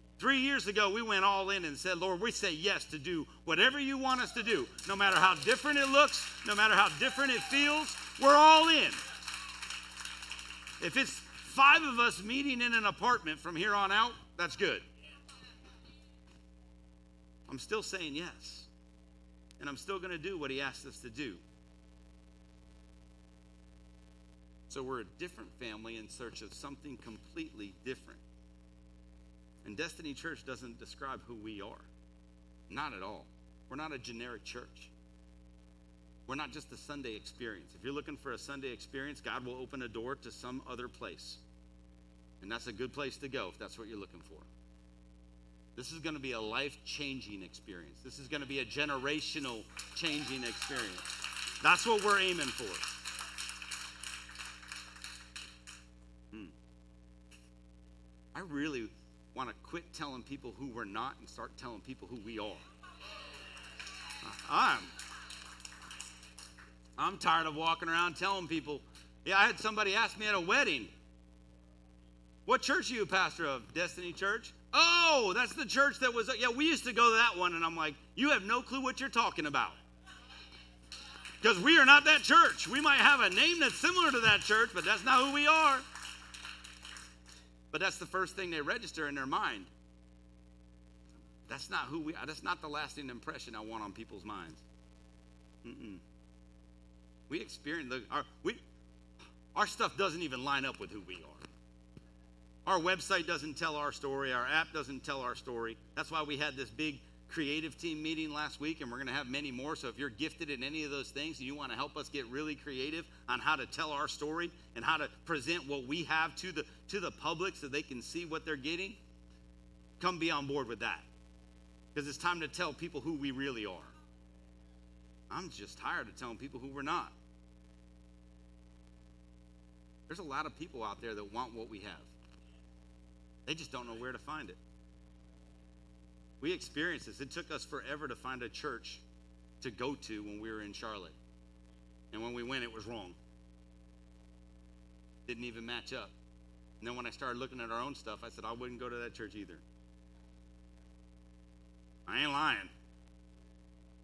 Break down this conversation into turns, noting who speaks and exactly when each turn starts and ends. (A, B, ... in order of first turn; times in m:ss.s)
0:00.2-0:09.0 A
0:10.8-0:14.8 A
0:17.5-0:18.7 A
0:19.6-0:21.4 A
0:24.7-0:28.2 A
0:29.6-0:31.9 A
0:32.7-0:34.9 A
0:36.3-0:41.4 A
0:42.4-0:44.5 A
0:45.8-0:51.0 A
0:51.6-0:52.8 A
0:58.3-1:02.6 A
1:04.2-1:04.9 A
1:07.0-1:10.9 A
1:12.4-1:19.8 A
1:21.4-1:25.8 A
1:27.7-1:29.7 A
1:31.5-1:34.6 A
1:35.6-1:36.0 A
1:37.3-1:38.6 A
1:39.5-1:41.4 A
1:42.6-1:59.0 A
2:00.0-2:01.1 A
2:01.9-2:03.9 A
2:05.3-2:07.1 A
2:10.1-2:12.1 A
2:13.4-2:14.6 A
2:16.4-2:19.0 A
2:19.6-2:21.1 A
2:22.1-2:23.2 A
2:25.2-2:26.1 A
2:26.8-2:29.6 A
2:32.1-2:32.7 A